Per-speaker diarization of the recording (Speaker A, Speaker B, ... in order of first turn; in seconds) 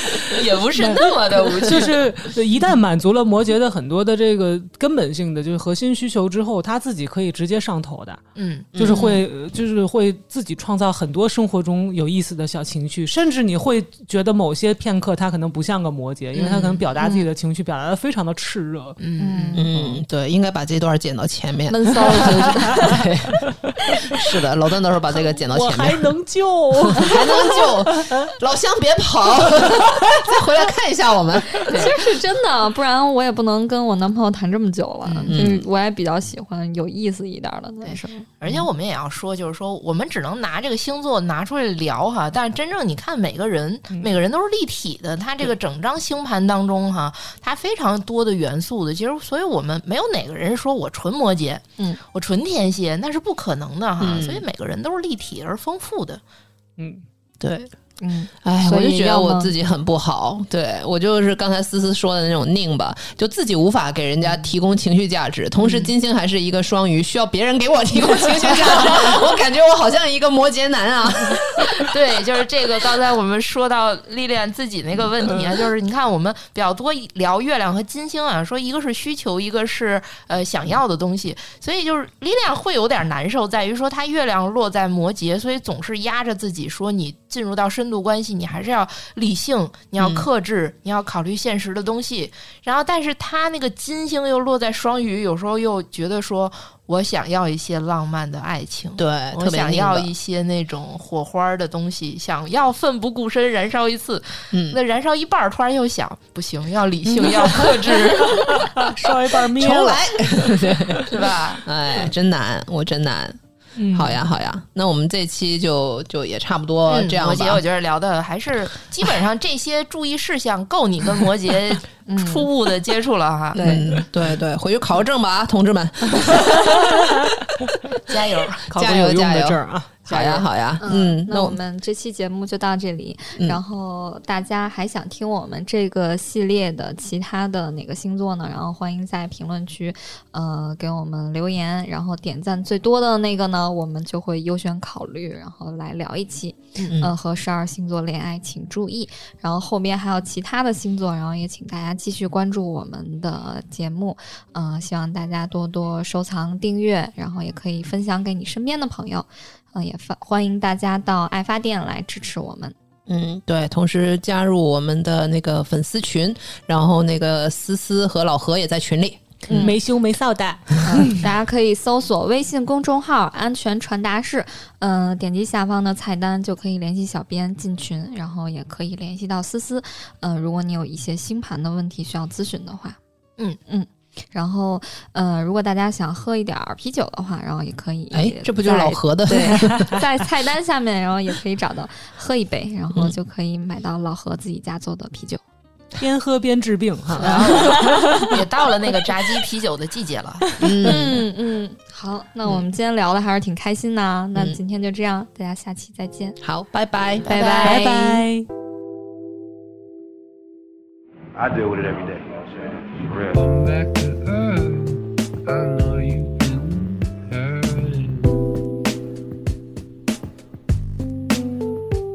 Speaker A: 0.2-1.9, 8.3-9.2, 16.3-16.9, 19.0-19.6, 31.6-31.9, 35.1-35.3, 37.8-56.2, 65.6-65.9, 71.8-108.8, 111.1-111.6, 116.9-123.8, 128.1-128.6, 146.8-147.0, 197.2-200.5, 207.2-207.9
Speaker B: 0.7-8.2, 8.8-19.0, 19.7-20.0, 25.4-28.3, 56.8-57.0, 68.2-69.2, 107.1-111.1, 113.8-114.2, 126.1-127.3, 128.7-130.4, 169.5-171.2, 189.6-189.9, 195.9-198.4, 207.6-208.5
Speaker C: 8.7-9.2, 19.5-26.1, 26.8-31.6, 35.3-35.6, 54.0-54.4, 57.4-57.7, 58.4-71.9, 90.0-90.3, 99.0-100.1, 104.5-104.8, 109.6-113.4, 113.9-117.6, 123.6-126.7, 128.7-131.6, 146.9-147.1, 163.1-169.7, 188.1-190.0, 200.6-201.2, 206.4-207.3
Speaker D: 19.2-19.7, 21.7-23.0, 31.7-38.3, 58.0-59.5, 122.0-122.5, 123.5-123.9, 130.8-162.7, 170.8-183.0, 183.7-195.4, 197.2-198.0, 200.8-206.4, 207.3-208.0
Speaker E: 211.3-213.4
Speaker F: 213.2-218.4